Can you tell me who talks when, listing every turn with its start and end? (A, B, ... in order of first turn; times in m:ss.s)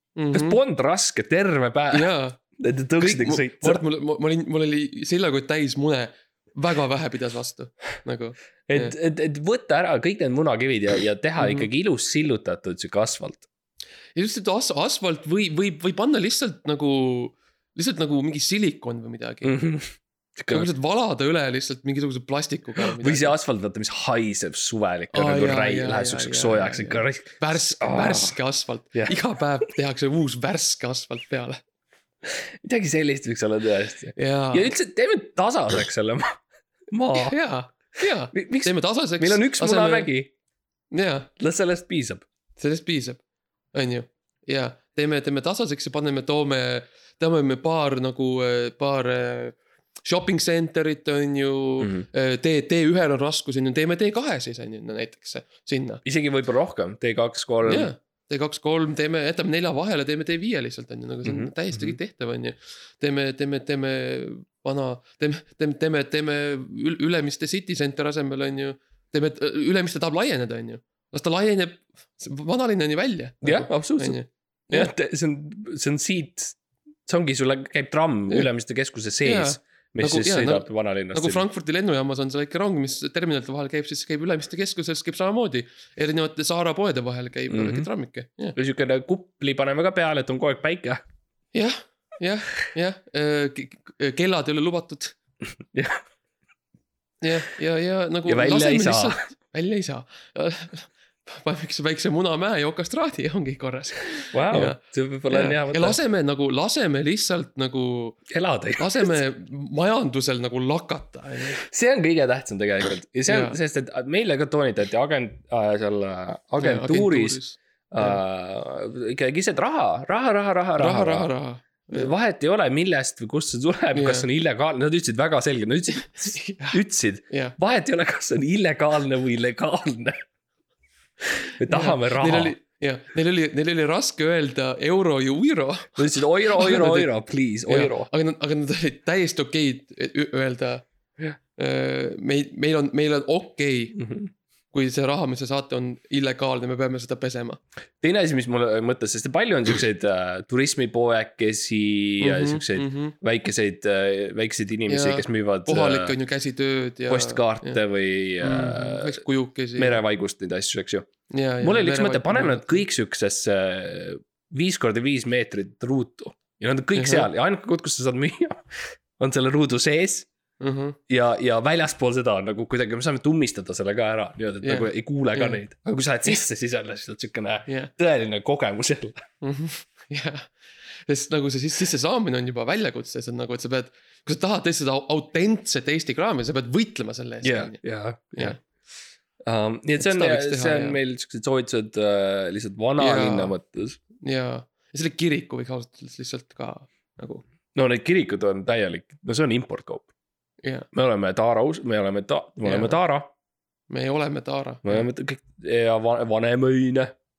0:00.2-0:00.6 A
0:00.3-0:03.8 B
0:01.9-0:02.4 A
0:03.0-0:08.9 A
0:08.7-0:13.4 B
0:11.4-0:11.7 A
0:14.2-0:19.6 A
0:19.4-0:20.7 B
0:20.5-0:23.4 A
0:22.8-0:28.3 B
0:25.1-0:31.6 A
0:32.2-0:36.4 B
0:34.2-0:34.7 A
0:36.9-0:37.4 B
0:37.2-0:40.1 A
0:38.3-0:40.3 B
0:40.9-0:41.3 A
0:41.4-0:42.2 B
0:42.6-0:43.2 A
0:43.7-0:56.0 A
0:51.8-0:52.0 B
0:56.0-0:57.9 B
0:57.6-1:14.9 A
1:01.2-1:02.0 B
1:13.4-1:14.2 B
1:14.7-1:21.4 B
1:19.2-1:28.6 A
1:27.5-1:27.9 B
1:28.6-1:31.0 B
1:31.5-1:35.2 A
1:35.7-1:36.0 B
1:37.2-1:48.2 A
1:38.2-1:39.2 B
1:44.3-1:46.0 B
1:48.3-1:49.2 B
1:48.8-1:51.6 A
1:51.6-2:01.3 B
1:53.3-1:53.6 A
1:56.6-1:58.2 A
2:00.8-2:02.1 A
2:01.9-2:10.2 B
2:03.9-2:04.3 A
2:06.1-2:06.8 A
2:07.3-2:07.6 A
2:11.4-2:12.5 B
2:11.7-2:17.1 A
2:16.0-2:18.1 B
2:17.7-2:20.8 A
2:21.6-2:24.0 A
2:24.0-2:24.3 B
2:24.7-2:27.6 A
2:28.0-2:36.1 B
2:32.2-2:33.1 A
2:34.9-2:37.8 A
2:37.1-2:39.2 B
2:38.4-2:40.0 A
2:39.8-2:41.1 B
2:41.3-2:42.8 A
2:41.6-2:50.3 B
2:46.9-2:47.3 A
2:50.6-2:51.0 A
2:51.1-2:59.2 B
2:54.6-2:55.6 A
2:59.4-3:07.8 A
3:07.4-3:08.6 B
3:09.4-3:14.0 B
3:10.0-3:11.0 A
3:13.0-3:13.5 A
3:14.2-3:17.4 A
3:17.7-3:20.1 B
3:20.9-3:23.3 B
3:22.6-3:23.0 A
3:23.9-3:25.1 A
3:24.8-3:27.1 B